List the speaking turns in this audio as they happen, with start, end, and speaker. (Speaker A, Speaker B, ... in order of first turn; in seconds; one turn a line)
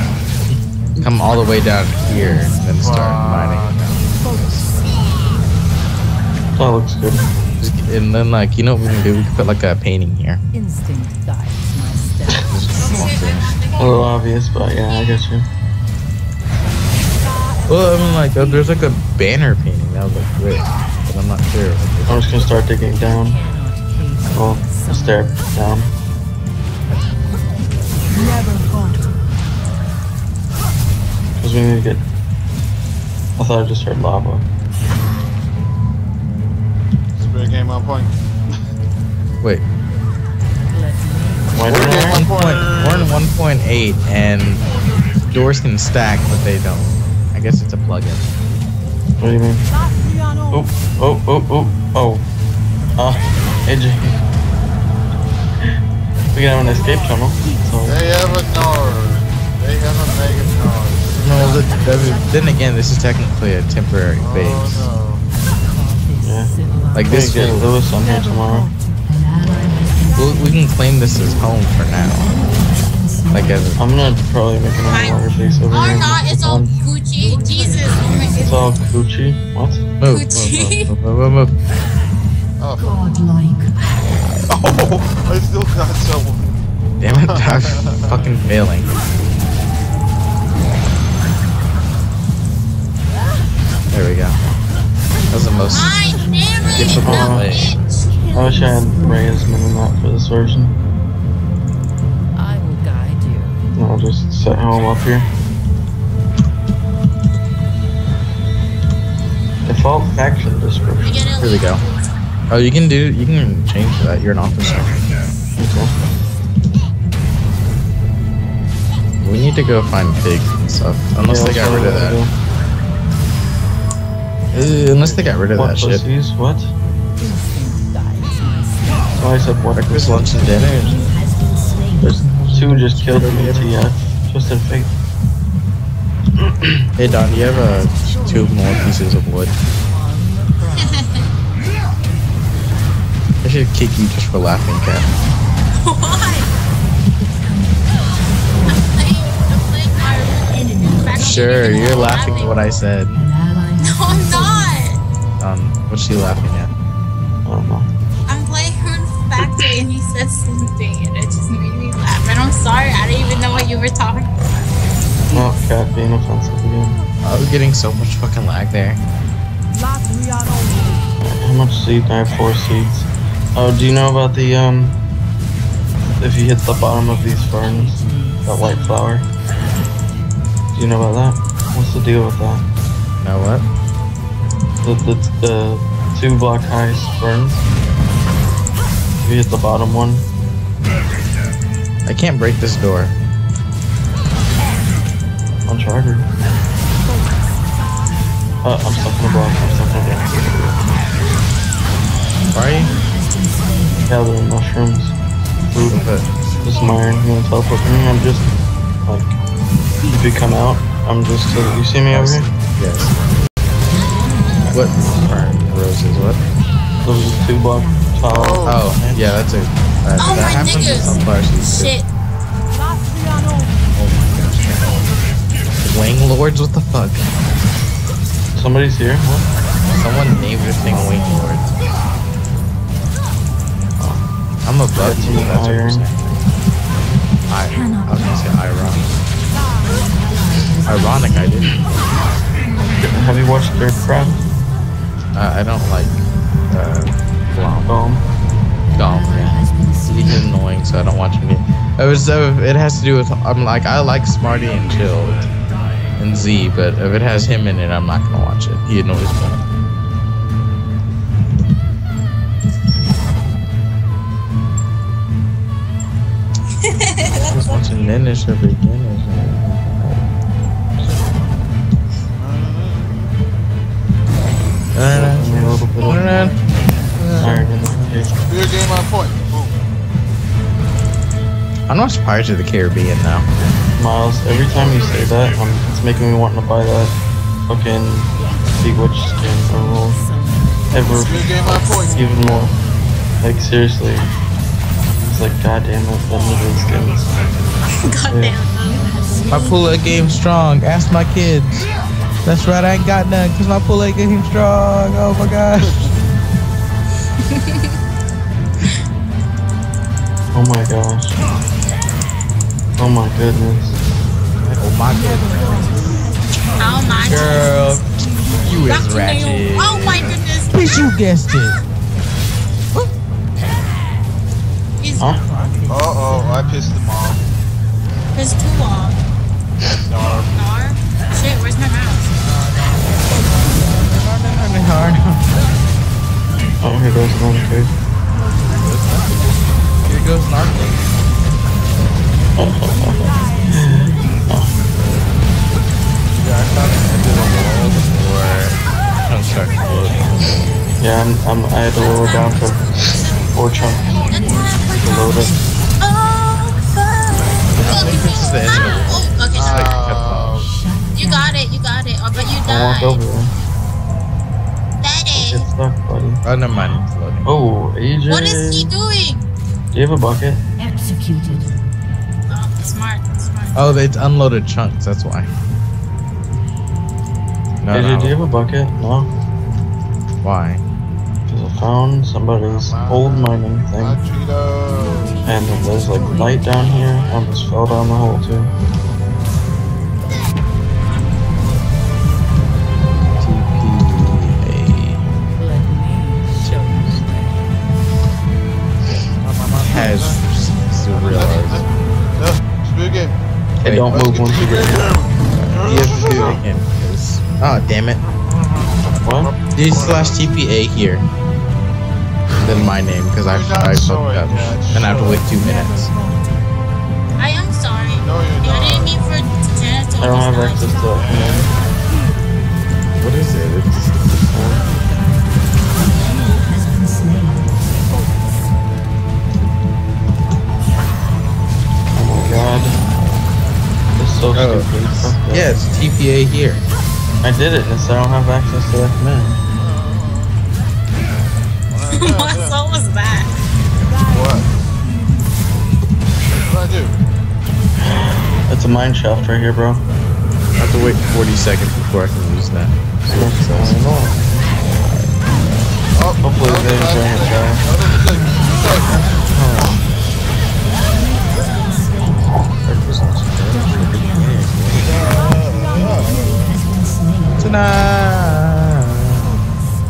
Speaker A: 1.0-4.7
Speaker B: 2.6-3.9
Speaker C: 6.5-7.3
Speaker A: 7.6-10.4
Speaker D: 10.5-13.1
Speaker A: 12.5-13.5
Speaker E: 12.8-14.1
Speaker C: 13.8-15.5
Speaker A: 17.7-22.3
Speaker C: 22.1-23.4
Speaker D: 23.0-25.4
Speaker C: 24.3-25.9
Speaker C: 31.4-32.0
Speaker C: 33.4-34.5
Speaker B: 37.1-38.6
Speaker D: 40.6-41.8
Speaker C: 41.5-42.2
Speaker B: 41.6-43.2
Speaker A: 41.7-44.7
Speaker A: 45.2-48.3
Speaker C: 49.2-49.6
Speaker C: 50.5-52.3
Speaker C: 53.0-54.2
Speaker C: 56.3-58.0
Speaker B: 57.8-62.2
Speaker A: 61.2-64.9
Speaker B: 64.2-65.2
Speaker D: 65.4-67.4
Speaker C: 66.2-68.7
Speaker A: 66.9-67.7
Speaker A: 70.2-72.4
Speaker A: 73.3-73.8
Speaker C: 73.8-76.7
Speaker E: 74.8-78.7
Speaker C: 78.4-79.8
Speaker A: 80.0-81.5
Speaker E: 80.1-80.9
Speaker B: 82.6-83.3
Speaker B: 84.5-86.6
Speaker A: 87.0-88.9
Speaker B: 87.1-88.4
Speaker A: 93.9-94.4
Speaker A: 95.3-95.9
Speaker E: 95.7-98.2
Speaker C: 96.8-97.5
Speaker A: 96.8-97.8
Speaker C: 98.3-100.8
Speaker D: 102.3-103.6
Speaker C: 103.8-105.3
Speaker C: 109.6-111.3
Speaker E: 111.0-112.0
Speaker A: 111.4-111.8
Speaker A: 112.5-114.9
Speaker D: 114.9-116.5
Speaker C: 115.6-115.9
Speaker A: 119.2-122.2
Speaker C: 121.2-122.3
Speaker A: 124.5-126.0
Speaker B: 125.0-125.4
Speaker C: 125.5-126.7
Speaker D: 127.2-129.5
Speaker C: 129.2-130.5
Speaker A: 129.8-131.0
Speaker A: 132.0-133.9
Speaker C: 132.0-134.9
Speaker C: 136.4-136.9
Speaker A: 136.9-139.6
Speaker D: 139.8-141.3
Speaker E: 140.8-141.3
Speaker A: 143.4-145.1
Speaker E: 145.7-146.5
Speaker E: 148.6-152.7
Speaker A: 151.2-153.3
Speaker B: 151.7-152.8
Speaker E: 153.8-155.0
Speaker A: 155.4-156.7
Speaker C: 157.4-157.9
Speaker E: 158.3-164.7
Speaker C: 165.3-166.9
Speaker A: 167.2-169.0
Speaker C: 171.2-175.0
Speaker C: 176.2-179.3
Speaker D: 176.7-179.1
Speaker C: 180.7-182.7
Speaker A: 183.2-183.7
Speaker C: 184.8-187.6
Speaker C: 189.2-190.2
Speaker A: 192.1-193.2
Speaker C: 195.7-196.3
Speaker C: 198.6-201.0
Speaker A: 202.5-202.9
Speaker C: 204.1-205.1
Speaker C: 205.7-206.0
Speaker A: 205.9-206.3
Speaker C: 206.6-208.5
Speaker C: 209.1-209.3
Speaker C: 210.1-212.5
Speaker A: 212.1-213.1
Speaker A: 214.7-216.4
Speaker C: 217.0-219.4
Speaker B: 218.2-218.9
Speaker A: 218.6-221.9
Speaker E: 220.2-222.1
Speaker A: 223.9-225.1
Speaker A: 225.8-227.2
Speaker C: 228.5-229.5
Speaker A: 229.9-231.7
Speaker C: 234.0-234.3
Speaker A: 234.6-236.4
Speaker C: 234.9-236.1
Speaker A: 237.5-239.1
Speaker A: 240.8-241.8
Speaker C: 242.9-244.5
Speaker A: 245.3-247.9
Speaker C: 247.8-248.2
Speaker A: 248.9-255.5
Speaker A: 256.2-259.6
Speaker E: 266.8-268.1
Speaker A: 267.5-270.2
Speaker B: 272.3-273.3
Speaker A: 274.9-276.6
Speaker C: 275.1-276.5
Speaker A: 277.1-278.1
Speaker C: 277.4-278.3
Speaker B: 278.4-279.9
Speaker A: 281.9-283.5
Speaker C: 284.0-287.2
Speaker C: 287.7-290.2
Speaker D: 289.6-292.2
Speaker C: 290.9-292.8
Speaker B: 291.1-292.7
Speaker C: 293.4-294.3
Speaker C: 295.2-297.5
Speaker E: 298.0-298.9
Speaker C: 298.3-298.6
Speaker A: 299.5-301.9
Speaker A: 302.4-306.1
Speaker B: 305.8-306.1
Speaker E: 307.4-307.9
Speaker C: 310.5-311.4
Speaker C: 313.0-314.0
Speaker B: 314.6-314.9
Speaker A: 314.8-316.3
Speaker E: 316.7-317.9
Speaker A: 317.2-321.8
Speaker B: 318.6-318.9
Speaker E: 318.9-320.7
Speaker E: 325.0-325.4
Speaker D: 325.2-326.9
Speaker B: 325.9-327.5
Speaker E: 328.4-329.2
Speaker B: 330.0-330.7
Speaker E: 330.5-332.3
Speaker A: 332.4-335.6
Speaker C: 336.8-337.9
Speaker A: 338.7-341.1
Speaker C: 342.6-344.7
Speaker A: 346.4-350.7
Speaker C: 351.0-354.2
Speaker E: 352.1-359.9
Speaker C: 354.9-355.5
Speaker A: 357.7-360.7
Speaker B: 359.5-360.7
Speaker E: 361.1-363.2
Speaker C: 362.6-363.5
Speaker E: 365.0-365.6
Speaker C: 365.3-366.4
Speaker A: 366.4-367.5
Speaker C: 367.4-368.9
Speaker E: 368.3-369.5
Speaker C: 369.9-370.6
Speaker E: 372.5-374.1
Speaker A: 373.8-375.5
Speaker A: 377.8-378.5
Speaker C: 377.9-379.3
Speaker A: 380.4-380.8
Speaker C: 381.5-384.2
Speaker B: 382.6-385.4
Speaker D: 385.1-387.0
Speaker C: 385.4-388.7
Speaker A: 393.4-395.3
Speaker D: 395.6-397.7
Speaker A: 396.6-397.2
Speaker B: 399.4-403.4
Speaker A: 399.5-401.9
Speaker A: 403.8-404.2
Speaker C: 403.8-405.1
Speaker B: 404.0-406.6
Speaker A: 405.8-408.2
Speaker B: 408.4-410.5
Speaker C: 409.2-409.5
Speaker A: 409.7-411.3
Speaker A: 412.6-416.1
Speaker B: 413.4-415.5
Speaker D: 415.3-416.7
Speaker E: 417.4-421.0
Speaker B: 418.1-419.2
Speaker C: 420.2-421.7
Speaker B: 421.1-421.8
Speaker A: 423.2-424.2
Speaker C: 424.5-424.8
Speaker D: 424.7-426.0
Speaker C: 432.1-433.1
Speaker C: 434.1-435.7
Speaker A: 434.5-436.9
Speaker C: 437.4-439.6
Speaker B: 439.7-440.6
Speaker B: 441.9-442.8
Speaker E: 442.1-443.6
Speaker B: 444.2-444.7
Speaker B: 446.5-447.2
Speaker C: 448.0-450.0
Speaker A: 450.8-454.0
Speaker C: 453.3-454.6
Speaker B: 456.1-459.3
Speaker C: 456.4-457.9
Speaker A: 459.1-460.0
Speaker A: 462.9-465.4
Speaker B: 464.9-466.9
Speaker A: 467.6-469.6